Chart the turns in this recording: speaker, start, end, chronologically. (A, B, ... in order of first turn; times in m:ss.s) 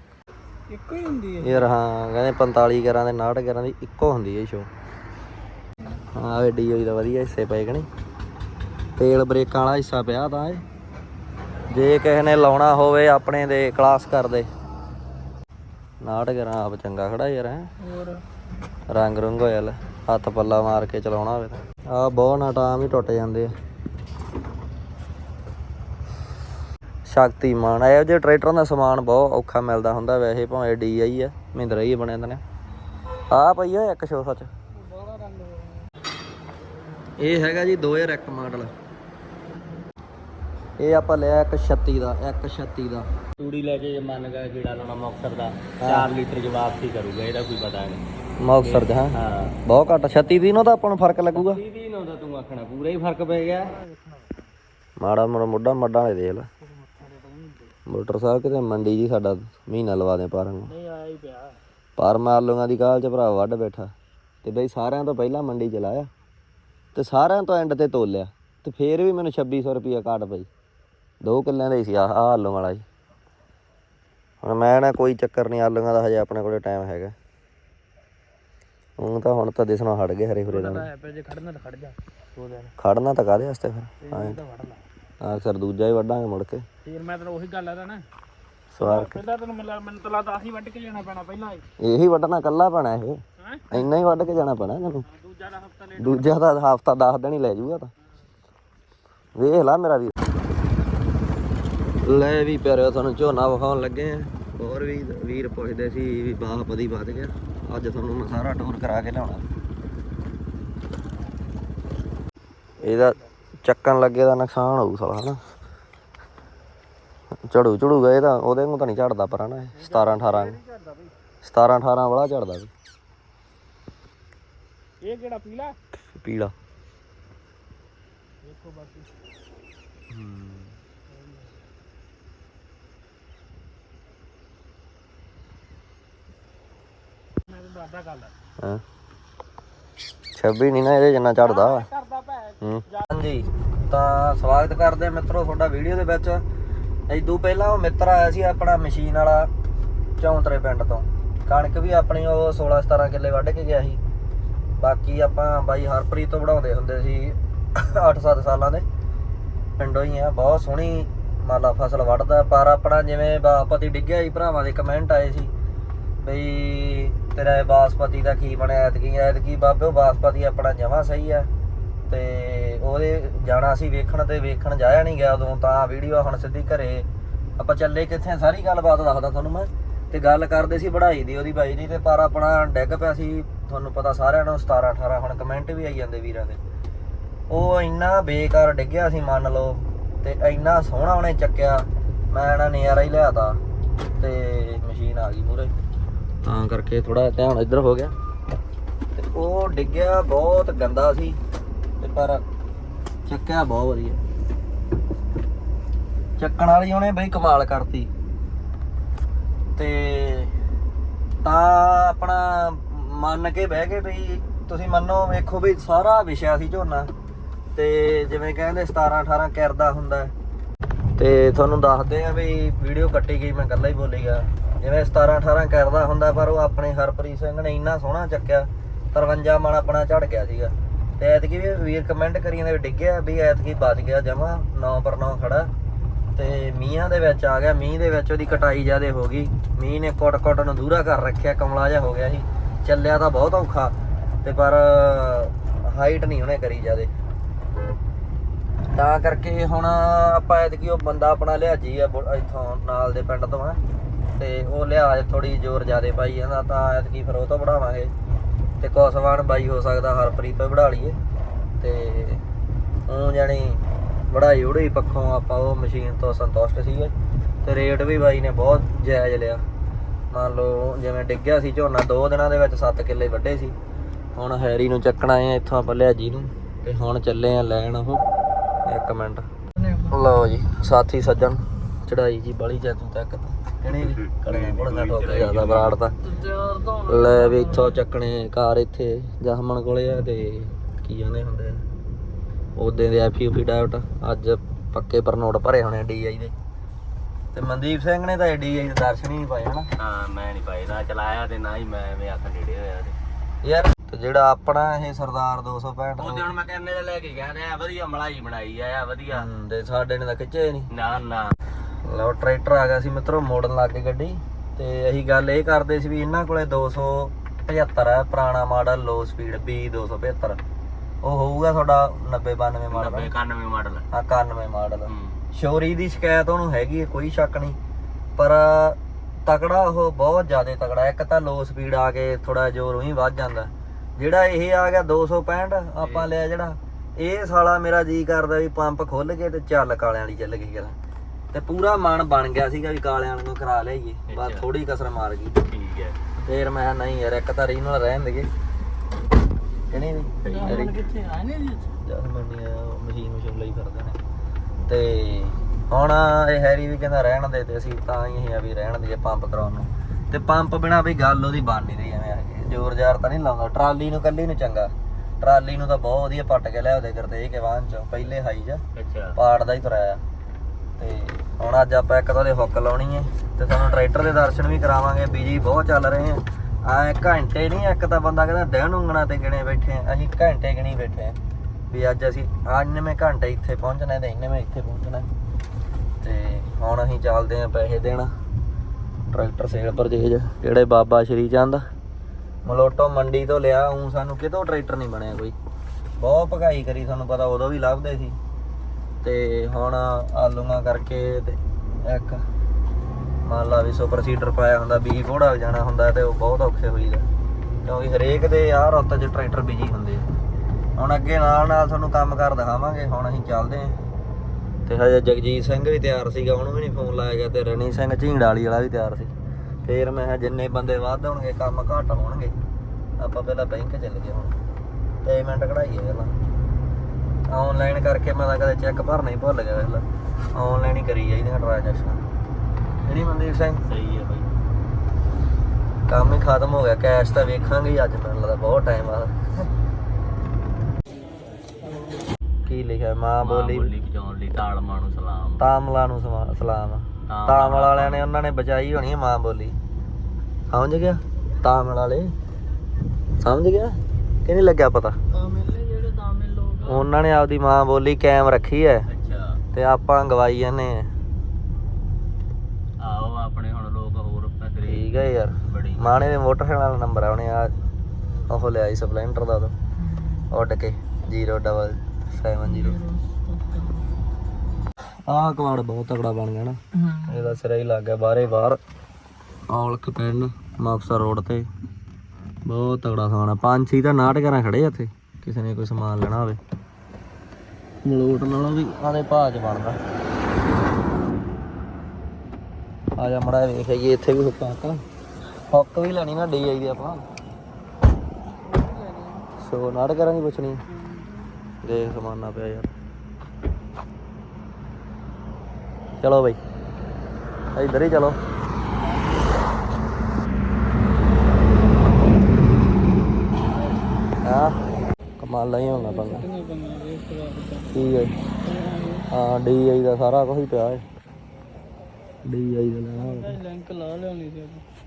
0:00.7-0:01.7 A
0:01.4-0:04.7 B
0:06.1-0:07.9 B
0:09.0-0:10.6 B
0:11.7-0:14.5 B
0:16.0-0:17.7 B
0:17.8-0:18.2 A
0:18.9-0:23.5 B
0:27.1-0:32.4 B
0:33.3-0:34.5 B
0:34.7-0:35.9 A
0:37.2-0:38.7 B
0:40.8-0:43.1 B
0:43.4-0:48.0 C
0:45.8-0:46.1 B
0:48.4-0:51.6 B
0:48.6-0:49.6 C
0:51.3-0:53.7 C
0:55.0-0:56.5 B
0:57.0-0:57.7 A
0:57.9-1:00.7 B
1:00.7-1:01.6 A
1:02.0-1:03.9 B
1:04.4-1:06.1 B
1:07.0-1:10.5 B
1:11.2-1:12.8 B
1:14.4-1:17.2 B
1:19.0-1:20.9 B
1:20.5-1:22.7 A
1:22.8-1:24.4 B
1:24.0-1:24.8 A
1:25.2-1:26.6 B
1:26.8-1:28.0 A
1:28.7-1:29.2 B
1:28.8-1:31.6 A
1:31.8-1:35.1 B
1:33.4-1:33.7 A
1:35.2-1:36.3 A
1:36.0-1:37.9 B
1:39.4-1:40.2 B
1:42.0-1:49.4 B
1:52.8-1:55.4 B
1:52.8-1:53.2 A
1:57.5-2:00.6 B
1:59.8-2:01.1 A
2:01.4-2:02.7 B
2:05.0-2:05.8 A
2:06.2-2:06.5 B
2:08.4-2:09.1 A
2:10.1-2:10.7 B
2:11.2-2:11.4 A
2:17.5-2:18.3 A
2:20.4-2:21.9 B
2:21.4-2:23.1 A
2:22.6-2:26.4 B
2:27.1-2:29.5 B
2:30.2-2:34.0 B
2:34.8-2:38.9 B
2:39.8-2:45.5 B
2:46.2-2:51.5 B
2:52.1-2:57.1 B
2:57.6-3:06.6 B
3:07.5-3:13.6 B
3:14.2-3:15.7 B
3:16.4-3:18.1 B
3:19.2-3:21.4 B
3:22.0-3:22.4 B
3:23.3-3:24.2 B
3:26.4-3:28.1 B
3:29.8-3:30.5 B
3:31.4-3:37.1 B
3:37.8-3:40.3 B
3:41.2-3:55.7 B
3:56.4-4:07.1 B
4:08.9-4:13.8 B
4:14.4-4:18.1 B
4:18.8-4:21.2 B
4:21.8-4:22.4 B
4:23.1-4:29.6 B
4:30.3-4:33.8 B
4:34.4-4:38.2 B
4:38.8-4:39.5 B
4:40.0-4:46.2 B
4:43.9-4:46.0 C
4:46.3-4:48.0 A
4:47.0-4:51.8 B
4:52.8-4:56.6 B
4:57.5-4:59.9 B
5:00.0-5:03.2 C
5:03.6-5:06.5 B
5:06.2-5:09.5 C
5:09.3-5:10.9 B
5:10.9-5:11.6 C
5:12.0-5:20.6 B
5:21.2-5:23.3 B
5:22.9-5:24.1 C
5:24.1-5:27.8 B
5:25.1-5:25.4 C
5:28.4-5:41.0 B
5:36.0-5:36.3 C
5:41.5-5:45.6 B
5:44.3-5:44.7 C
5:45.7-5:46.2 C
5:46.4-5:48.5 B
5:49.9-5:51.0 B
5:50.4-5:50.9 C
5:50.5-5:51.9 A
5:52.0-5:54.2 B
5:54.8-6:08.8 B
6:09.0-6:09.4 C
6:09.4-6:10.2 B
6:11.0-6:21.4 B
6:21.9-6:25.3 B
6:26.2-6:28.3 B
6:29.3-6:31.8 B
6:32.6-6:35.6 B
6:36.2-6:38.4 B
6:39.2-6:42.4 B
6:43.4-6:47.3 B
6:47.8-6:50.3 B
6:51.0-6:54.0 B
6:54.9-6:59.3 B
6:59.9-7:02.6 B
7:03.2-7:04.6 B
7:05.2-7:06.3 B
7:07.5-7:12.2 B
7:13.1-7:13.8 B
7:13.9-7:14.5 C
7:16.1-7:19.4 B
7:21.8-7:22.2 A
7:22.7-7:23.9 B
7:23.4-7:25.7 C
7:25.6-7:29.8 B
7:27.3-7:28.4 C
7:30.7-7:32.3 B
7:33.4-7:35.2 B
7:35.3-7:37.1 A
7:36.9-7:39.1 B
7:39.1-7:39.6 C
7:39.7-7:41.1 B
7:43.0-7:45.1 C
7:44.8-7:47.8 B
7:45.6-7:46.3 C
7:48.5-7:49.8 B
7:50.0-7:50.5 A
7:50.5-7:53.0 B
7:52.6-7:54.1 A
7:55.3-7:58.8 B
7:57.0-7:57.6 A
7:59.7-8:01.7 B
8:02.7-8:06.6 B
8:08.0-8:10.0 B
8:13.2-8:15.0 B
8:15.7-8:17.2 B
8:18.6-8:19.5 A
8:19.6-8:20.8 B
8:20.9-8:21.3 A
8:21.8-8:22.9 B
8:26.2-8:26.6 B
8:27.8-8:28.4 B
8:34.4-8:34.8 B
8:35.4-8:36.5 B
8:35.8-8:37.9 A
8:37.9-8:38.4 B
8:38.6-8:39.3 A
8:39.3-8:41.0 B
8:42.4-8:43.6 B
8:43.2-8:44.8 A